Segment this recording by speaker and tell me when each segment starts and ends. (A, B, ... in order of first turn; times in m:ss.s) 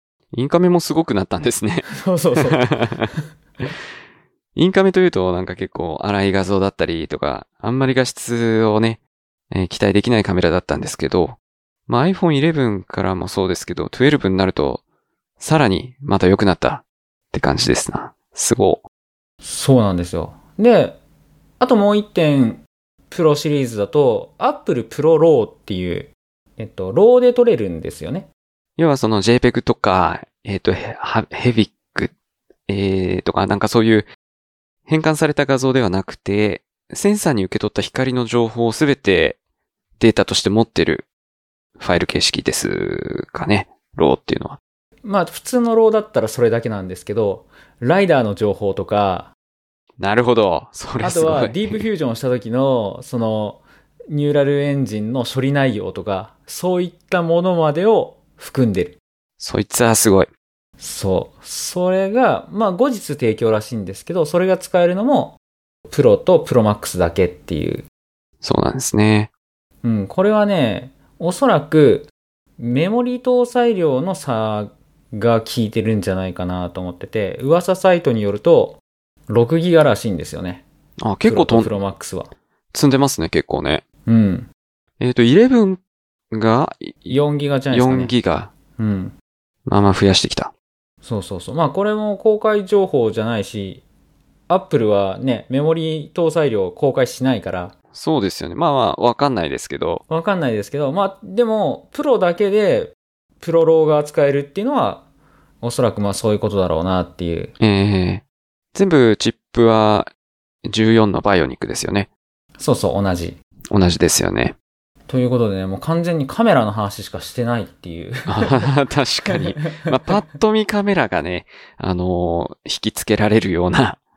0:00.3-0:03.1 A
0:01.9-0:03.2 B
0:04.6-0:14.8 A
0:15.4-0:18.8 A
0:19.4-0:21.0 B
0:21.6-0:28.3 B
0:28.8-0:32.1 A
0:32.7-0:34.1 A
0:34.9-0:39.4 A
0:40.0-0:41.1 A
0:41.8-0:44.6 A
0:45.0-0:49.3 B
0:50.0-0:51.9 A
0:51.0-0:59.0 B
0:59.4-1:00.3 A
1:00.8-1:05.4 B
1:05.9-1:07.8 B
1:08.4-1:09.3 A
1:09.8-1:20.6 B
1:21.0-1:21.7 A
1:21.2-1:22.3 B
1:22.7-1:23.8 A
1:24.0-1:24.5 B
1:25.0-1:27.2 A
1:27.1-1:28.1 B
1:27.7-1:28.5 A
1:28.8-1:29.2 B
1:29.7-1:30.5 A
1:31.0-1:33.8 B
1:34.5-1:37.7 B
1:37.9-1:40.0 A
1:40.1-1:45.0 B
1:45.6-1:47.5 B
1:47.6-1:50.1 A
1:50.6-1:52.1 A
1:52.6-1:53.4 B
1:53.7-1:54.6 A
1:55.1-1:58.7 B
1:58.3-2:04.0 A
1:59.3-1:59.9 B